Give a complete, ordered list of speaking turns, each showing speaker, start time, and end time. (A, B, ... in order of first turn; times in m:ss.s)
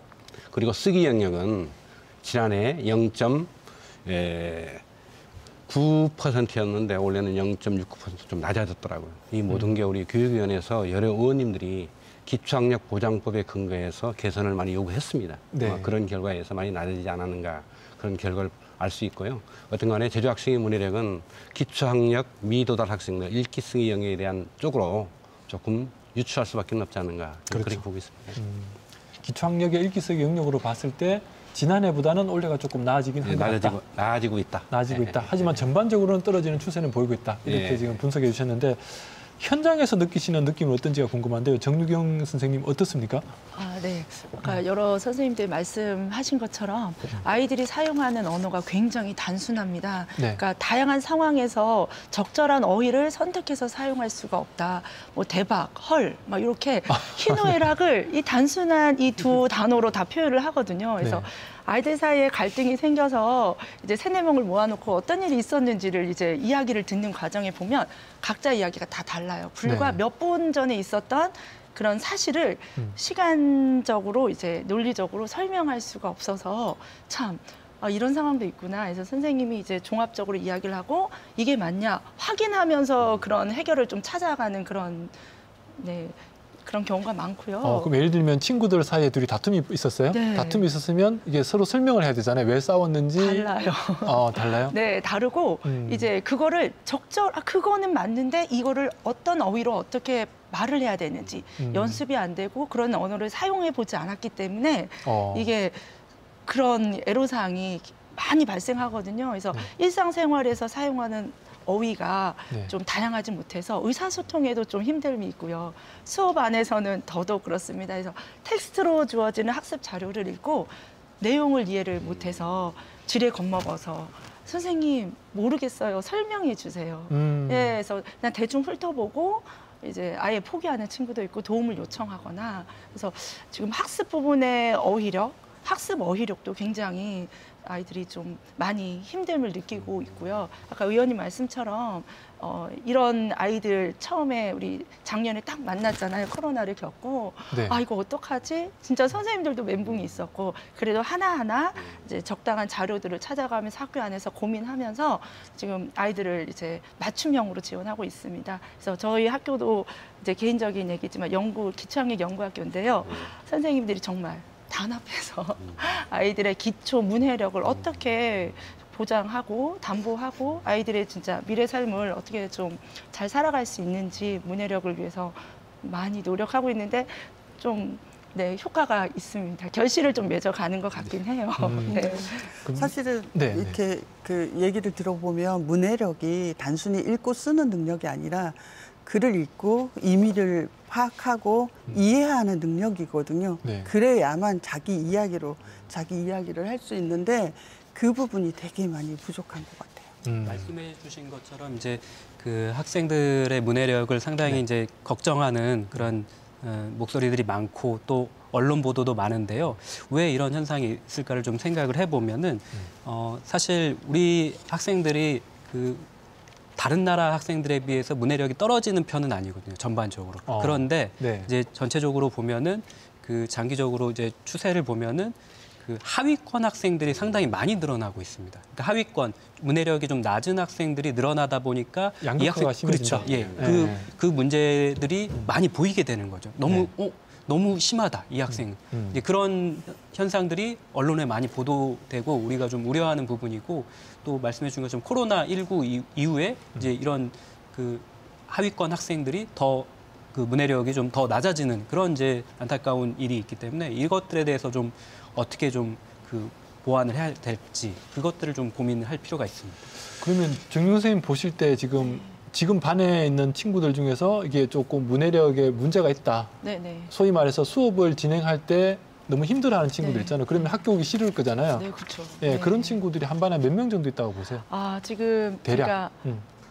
0:00.5-0:03.5 A
0:04.1-0:04.8 A
0:05.7-0:28.4 A
0:15.5-0:15.9 B
0:27.5-0:27.8 B
0:28.4-0:33.8 B
0:33.2-0:35.6 A
0:34.7-0:43.3 B
0:37.4-0:37.9 A
0:43.5-1:25.1 C
0:57.0-0:57.6 B
1:01.0-1:01.3 B
1:09.6-1:10.0 B
1:25.8-1:27.9 C
1:27.6-1:34.8 B
1:30.1-1:30.7 C
1:33.2-1:45.9 C
1:35.6-1:36.1 B
1:41.6-1:42.0 B
1:45.0-1:45.5 B
1:46.5-3:02.6 C
2:07.1-2:07.8 B
2:27.5-2:27.8 B
3:01.6-3:03.8 B
3:01.9-3:20.2 D
3:13.6-3:13.9 B
3:20.2-3:20.7 B
3:20.4-3:36.1 E
3:36.8-4:19.8 E
3:40.5-3:41.5 B
3:52.2-3:54.1 B
3:53.2-3:53.9 A
3:58.5-3:59.2 B
4:20.2-4:26.6 B
4:26.6-4:27.1 C
4:27.1-4:31.9 B
4:30.0-4:30.8 C
4:31.7-4:33.0 C
4:32.4-4:34.6 B
4:34.7-4:36.2 C
4:35.6-4:36.4 B